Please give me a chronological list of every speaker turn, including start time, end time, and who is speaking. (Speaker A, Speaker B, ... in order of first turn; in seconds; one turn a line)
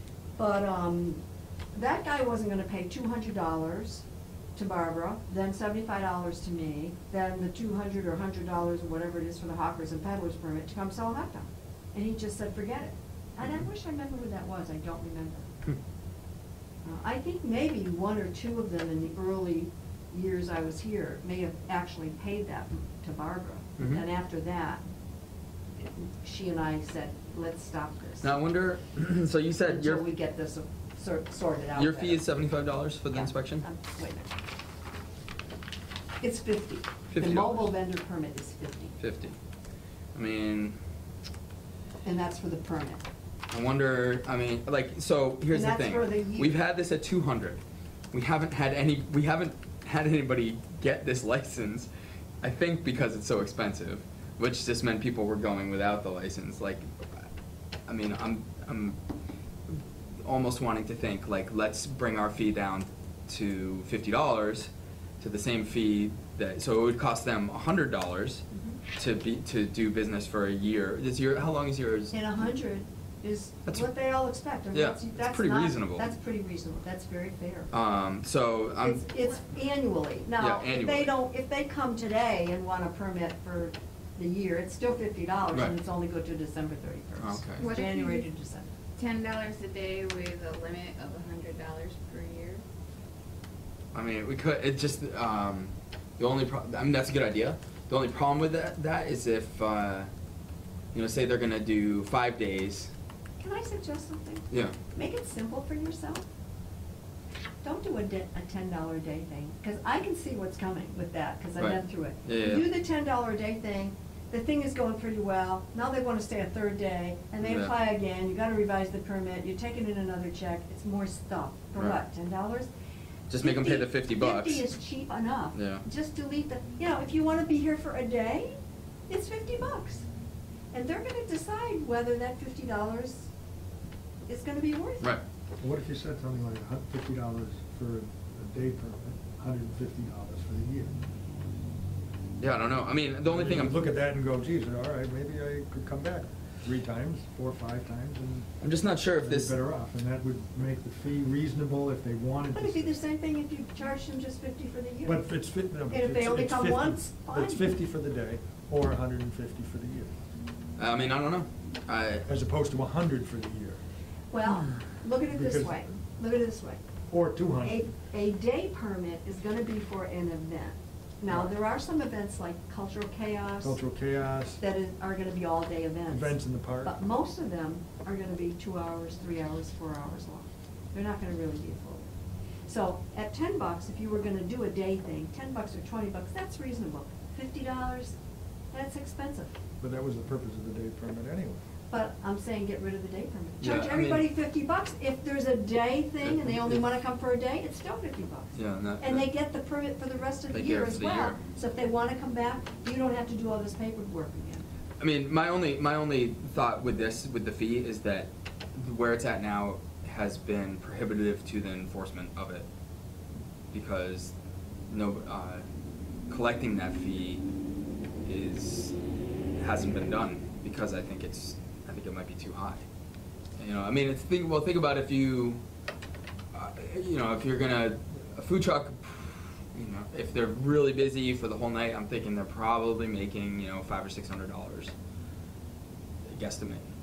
Speaker A: 0.4-1.2
Speaker A: 1.7-4.0
Speaker A: 4.5-15.5
Speaker A: 16.8-24.8
Speaker B: 23.8-24.0
Speaker A: 25.8-28.4
Speaker B: 28.2-30.0
Speaker A: 29.6-32.2
Speaker B: 31.8-33.6
Speaker A: 33.1-34.3
Speaker A: 36.2-38.9
Speaker B: 37.1-37.7
Speaker B: 39.0-39.4
Speaker B: 40.1-40.8
Speaker A: 42.0-43.0
Speaker B: 43.5-47.6
Speaker A: 45.5-46.6
Speaker B: 48.1-51.9
Speaker B: 52.4-57.2
Speaker B: 57.9-59.0
Speaker B: 59.7-64.7
Speaker B: 65.2-68.4
Speaker B: 69.0-72.1
Speaker A: 72.1-77.7
Speaker B: 74.7-76.0
Speaker B: 77.7-79.0
Speaker A: 78.8-88.7
Speaker B: 80.4-81.1
Speaker B: 87.2-87.7
Speaker C: 87.6-88.2
Speaker C: 89.0-92.6
Speaker B: 93.9-100.1
Speaker B: 100.9-102.9
Speaker A: 103.4-106.2
Speaker B: 104.5-104.8
Speaker A: 107.6-122.7
Speaker B: 111.6-112.6
Speaker B: 117.4-117.7
Speaker B: 123.3-124.6
Speaker A: 123.4-128.6
Speaker B: 125.5-125.8
Speaker A: 129.1-130.1
Speaker A: 130.7-133.3
Speaker A: 134.3-135.2
Speaker D: 135.6-140.9
Speaker B: 142.4-143.8
Speaker D: 143.3-148.5
Speaker B: 148.6-149.6
Speaker D: 149.2-152.9
Speaker A: 152.5-155.2
Speaker D: 155.0-160.1
Speaker A: 155.9-157.7
Speaker B: 160.8-162.2
Speaker D: 162.2-163.8
Speaker A: 164.3-166.8
Speaker D: 165.3-165.8
Speaker D: 167.1-167.8
Speaker A: 167.6-173.8
Speaker D: 173.6-174.6
Speaker A: 174.6-182.0
Speaker D: 176.1-176.9
Speaker A: 182.7-188.2
Speaker A: 188.7-189.5
Speaker D: 189.8-191.6
Speaker A: 191.9-204.7
Speaker B: 193.6-194.3
Speaker B: 196.2-196.8
Speaker B: 198.5-199.2
Speaker B: 200.5-201.4
Speaker B: 205.0-212.7
Speaker B: 213.7-214.3
Speaker B: 214.9-215.7
Speaker B: 216.3-217.4
Speaker B: 218.2-218.9
Speaker B: 219.6-222.8
Speaker B: 223.6-225.6
Speaker B: 226.5-234.9
Speaker B: 236.3-236.8